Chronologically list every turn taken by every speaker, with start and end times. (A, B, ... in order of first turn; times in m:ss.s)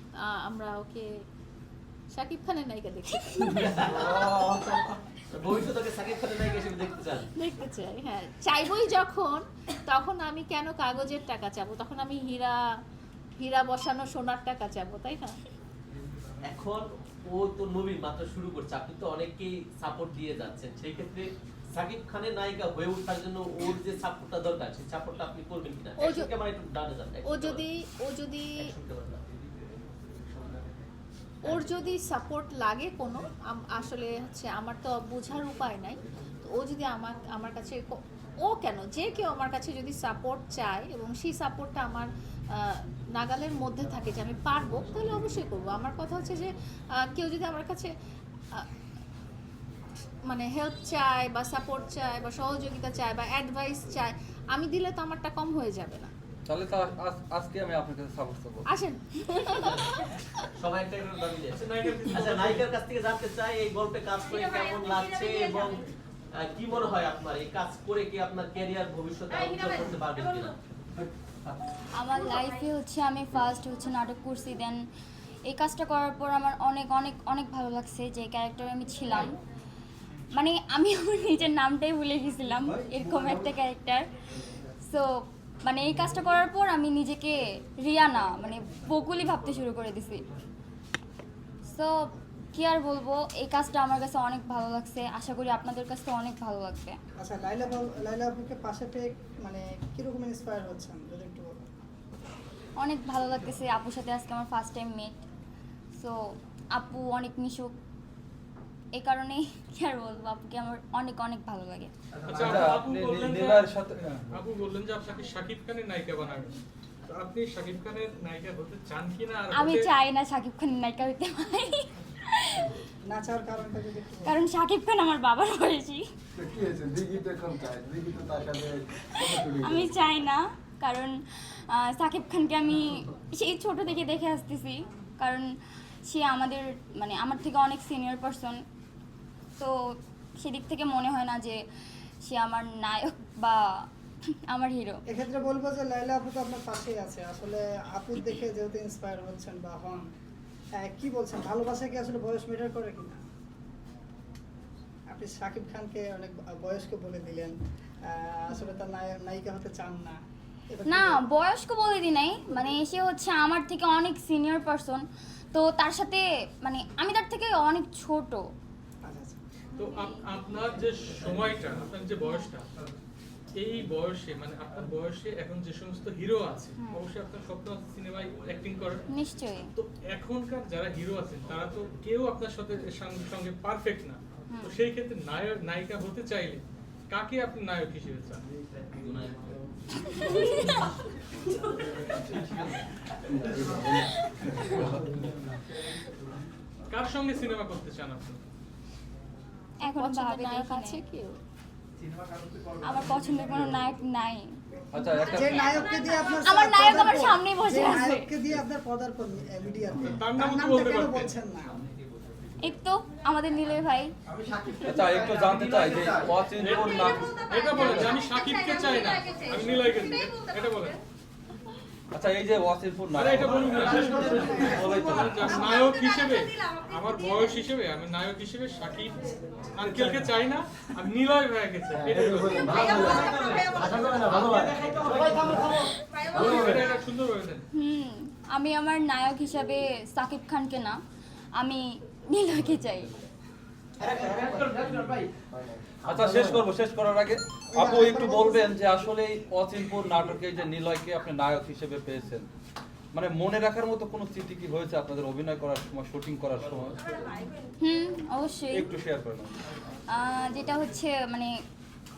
0:00.2-0:01.1 A
0:02.1-0:03.8 A
0:03.6-0:04.2 B
0:04.0-0:05.0 C
0:05.3-0:07.3 B
0:07.4-0:12.6 A
0:13.4-0:15.4 A
0:16.4-0:27.7 B
0:26.0-0:26.3 A
0:27.2-0:28.7 A
0:28.6-0:29.2 B
0:31.4-0:47.9 A
0:31.5-0:31.8 B
0:50.3-0:56.1 A
0:56.5-0:58.7 C
0:58.7-0:59.7 A
0:59.6-0:59.9 B
1:00.6-1:10.6 B
1:12.0-1:14.8 D
1:15.5-1:19.4 D
1:20.4-1:24.1 D
1:24.9-1:30.2 D
1:31.7-1:37.0 D
1:37.2-1:41.6 E
1:42.8-1:45.2 D
1:46.0-1:47.8 D
1:49.0-1:51.9 D
1:52.3-1:59.9 F
1:52.4-1:54.3 C
1:59.5-2:02.7 D
2:03.0-2:04.4 E
2:04.2-2:06.1 D
2:06.4-2:09.9 G
2:09.2-2:15.5 D
2:16.1-2:18.6 D
2:19.6-2:21.6 D
2:22.3-2:23.9 D
2:24.5-2:25.0 D
2:25.1-2:30.1 E
2:30.8-2:33.2 E
2:35.1-2:40.2 E
2:38.5-2:38.8 D
2:40.7-2:41.2 E
2:40.9-2:48.5 D
2:49.0-2:49.4 E
2:49.8-2:52.6 F
2:52.2-2:52.5 D
2:53.6-2:59.0 F
2:59.1-2:59.7 D
2:59.8-3:08.4 F
3:13.4-3:15.2 C
3:16.9-3:18.4 F
3:19.8-3:21.0 D
3:19.9-3:21.4 A
3:22.8-3:25.4 D
3:24.9-3:25.9 C
3:25.3-3:31.7 E
3:26.4-3:28.3 D
3:30.0-3:31.4 F
3:32.6-3:34.1 D
3:34.8-3:38.2 C
3:36.6-3:41.0 F
3:42.1-3:43.5 C
3:43.1-3:53.3 F
3:44.6-3:45.5 C
3:51.9-3:56.9 G
3:56.3-3:57.6 F
3:57.7-4:01.0 D
4:01.6-4:03.2 D
4:04.0-4:04.5 G
4:05.5-4:06.0 G
4:06.1-4:12.5 C
4:07.7-4:08.8 E
4:13.1-4:17.0 C
4:17.8-4:18.9 D
4:18.7-4:19.6 C
4:20.1-4:21.5 D